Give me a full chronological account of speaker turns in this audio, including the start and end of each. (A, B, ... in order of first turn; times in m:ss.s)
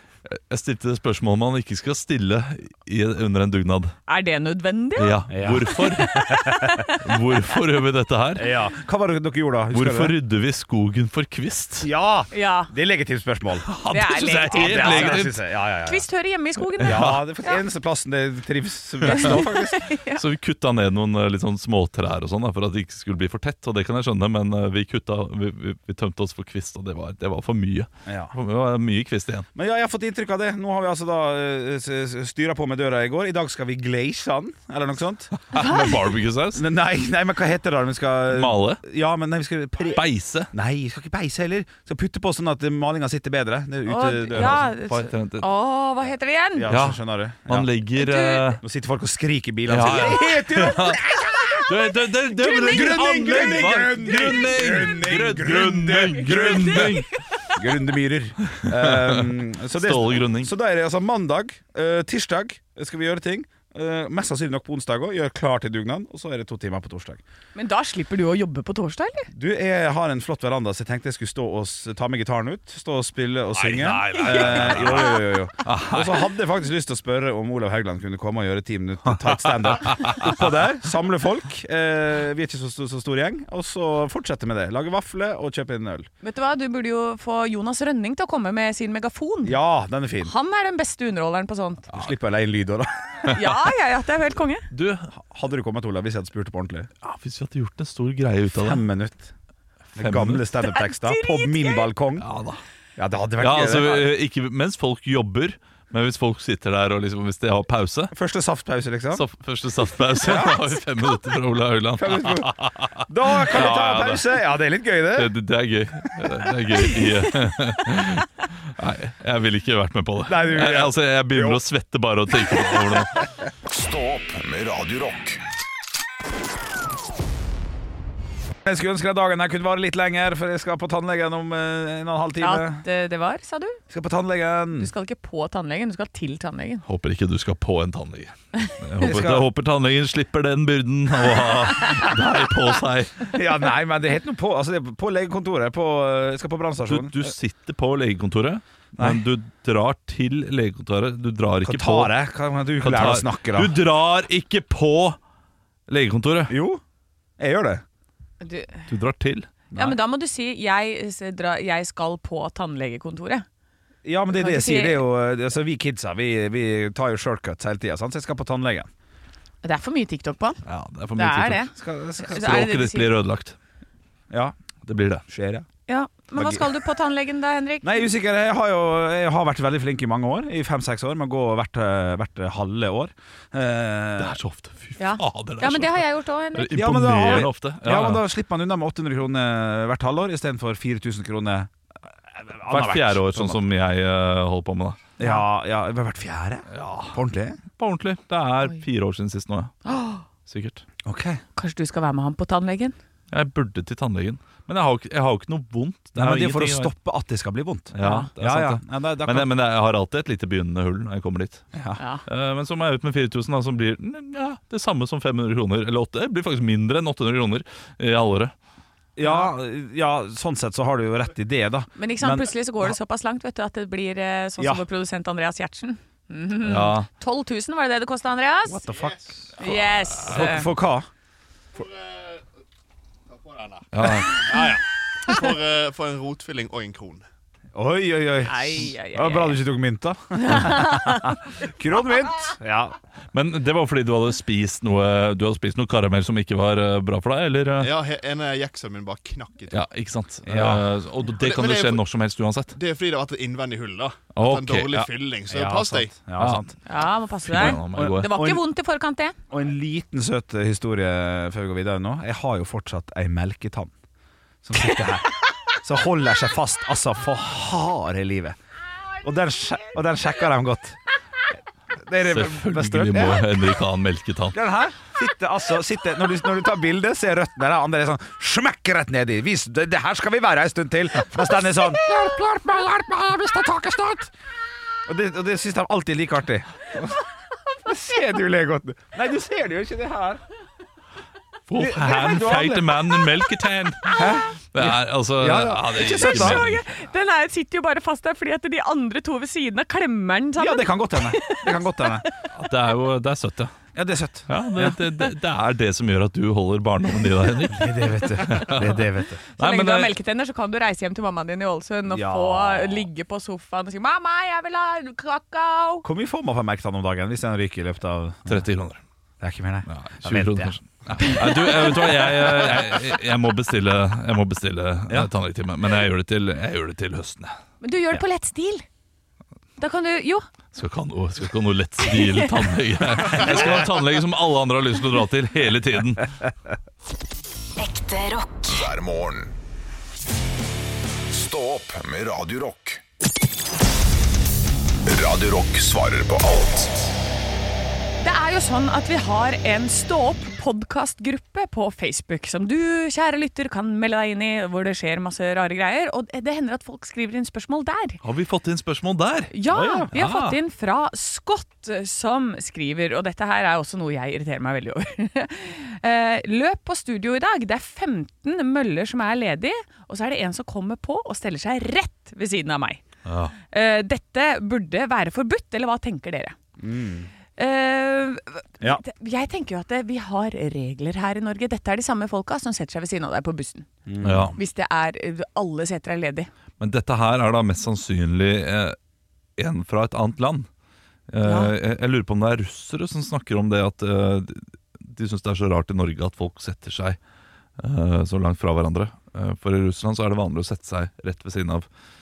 0:00.2-0:04.0 A
0:04.1-0:07.2 B
0:05.0-0:06.3 A
0:05.3-0:06.8 C
0:07.0-0:08.5 A
0:08.4-0:10.1 C
0:09.7-0:11.9 A
0:11.8-0:13.7 C
0:12.3-0:12.7 B
0:13.6-0:15.4 A
0:13.9-0:15.3 B
0:14.5-0:16.0 C
0:15.8-0:17.6 B
0:16.8-0:17.2 A
0:16.8-0:19.8 C
0:19.0-0:20.2 B
0:20.2-0:29.5 A
0:28.0-0:28.3 C
0:29.6-0:35.3 C
0:35.4-0:36.6 A
0:35.5-0:36.0 B
0:36.5-0:44.6 C
0:38.3-0:38.8 A
0:39.9-0:40.5 A
0:43.9-0:46.7 B
0:44.3-0:45.4 A
0:46.6-0:47.7 C
0:46.7-0:48.6 A
0:48.0-0:48.6 B
0:48.6-0:51.6 C
0:49.7-0:51.0 A
0:51.2-0:51.7 B
0:51.6-0:57.1 A
0:52.3-0:53.6 B
0:52.6-1:07.2 C
0:56.2-0:57.4 B
0:58.5-1:00.5 A
1:07.6-1:09.3 B
1:09.3-1:26.1 C
1:13.5-1:16.1 A
1:14.0-1:15.4 B
1:19.5-1:20.3 A
1:26.2-1:29.6 B
1:29.4-1:30.3 C
1:30.2-1:31.9 B
1:31.9-1:32.9 C
1:33.3-1:33.5 A
1:33.3-1:34.7 B
1:34.7-1:35.1 A
1:35.2-1:36.9 C
1:37.0-1:38.8 A
1:38.6-1:39.3 C
1:39.9-1:40.4 A
1:40.0-1:42.3 C
1:40.6-1:41.9 B
1:42.2-1:42.6 A
1:43.0-1:44.1 C
1:43.4-1:48.1 A
1:48.1-1:49.2 C
1:49.1-1:54.3 A
1:50.2-1:50.7 C
1:52.0-1:55.3 C
1:55.1-2:03.3 A
2:00.3-2:01.6 C
2:03.6-2:05.4 D
2:08.6-2:12.8 C
2:12.4-2:13.8 B
2:13.9-2:14.9 C
2:14.8-2:16.8 B
2:16.9-2:23.3 A
2:19.0-2:19.5 C
2:23.3-2:27.3 C
2:26.9-2:32.1 A
2:29.0-2:29.2 C
2:31.6-2:33.8 C
2:32.8-2:35.2 A
2:35.9-2:36.5 A
2:36.5-2:36.8 C
2:37.4-2:37.8 C
2:38.4-2:38.9 B
2:38.9-2:39.7 A
2:39.7-2:43.4 B
2:44.0-2:48.9 C
2:44.3-2:45.0 B
2:49.6-2:50.6 B
2:50.6-2:51.6 A
2:51.2-2:51.7 B
2:51.8-2:52.8 C
2:52.2-2:53.1 B
2:52.3-2:53.6 A
2:54.8-2:55.2 A
2:55.3-2:55.6 C
2:55.9-2:58.0 B
2:56.3-2:56.7 C
2:57.8-3:04.4 C
3:04.2-3:08.2 A
3:05.0-3:06.9 B
3:06.7-3:11.7 C
3:12.3-3:13.6 C
3:12.7-3:15.0 A
3:15.2-3:17.6 C
3:16.7-3:17.2 A
3:17.7-3:19.7 A
3:19.8-3:20.3 B
3:20.4-3:20.8 A
3:21.0-3:21.4 C
3:21.6-3:22.9 B
3:23.3-3:26.9 A
3:26.2-3:29.5 C
3:27.9-3:31.7 A
3:28.0-3:28.3 B
3:31.7-3:32.0 C
3:32.0-3:32.2 B
3:32.2-3:38.5 A
3:39.2-3:42.9 C
3:42.0-3:48.8 B
3:44.6-3:44.8 C
3:46.6-3:47.1 A
3:48.7-3:49.6 C
3:48.8-3:49.3 E
3:49.6-3:50.7 B
3:50.3-3:51.1 C
3:51.7-3:52.5 E
3:53.3-3:54.6 E
3:53.9-3:54.4 A
3:54.4-3:54.8 C
3:55.2-3:57.2 E
3:57.7-4:03.0 C
3:58.4-3:59.6 B
4:00.4-4:01.3 B
4:03.3-4:07.9 A
4:07.8-4:09.8 E
4:09.7-4:12.8 A
4:10.4-4:10.8 C
4:11.4-4:12.0 E
4:12.7-4:16.1 E
4:14.3-4:15.1 A
4:15.0-4:16.7 C
4:16.4-4:16.7 A
4:16.9-4:19.4 B
4:17.4-4:18.3 A
4:17.6-4:18.6 C
4:19.5-4:23.9 C
4:24.6-4:28.6 C
4:29.2-4:31.0 C
4:32.0-4:33.6 C
4:32.3-4:34.6 A
4:34.5-4:44.3 C
4:45.0-4:47.2 C
4:47.8-4:50.4 C
4:51.7-4:56.8 A
4:51.8-4:53.0 C
4:54.2-4:56.6 C
4:56.0-5:02.3 B
5:00.6-5:02.3 C
5:02.5-5:03.7 A
5:03.9-5:05.0 C
5:04.5-5:10.1 A
5:07.7-5:09.4 C
5:09.6-5:16.0 B
5:12.1-5:13.1 C
5:16.0-5:18.6 C
5:18.4-5:19.0 A
5:19.4-5:20.7 C
5:19.9-5:27.5 A
5:21.2-5:22.8 B
5:27.8-5:28.8 B
5:29.8-5:30.4 B
5:30.7-5:36.4 A
5:32.0-5:32.7 B
5:33.3-5:33.8 B
5:37.8-5:39.6 D
5:41.3-5:43.0 D
5:45.0-5:47.1 D
5:48.2-5:58.2 B
5:58.2-5:59.5 A
5:59.5-6:13.0 B
5:59.7-6:00.1 C
6:00.1-6:00.6 A
6:13.2-6:13.6 A
6:13.7-6:16.6 B
6:16.8-6:17.3 C
6:17.6-6:23.9 B
6:24.0-6:24.6 C
6:24.2-6:24.6 A
6:24.6-6:26.5 B
6:26.8-6:29.0 A
6:29.6-6:30.7 A
6:31.3-6:37.2 A
6:31.4-6:31.7 B
6:37.8-6:41.9 A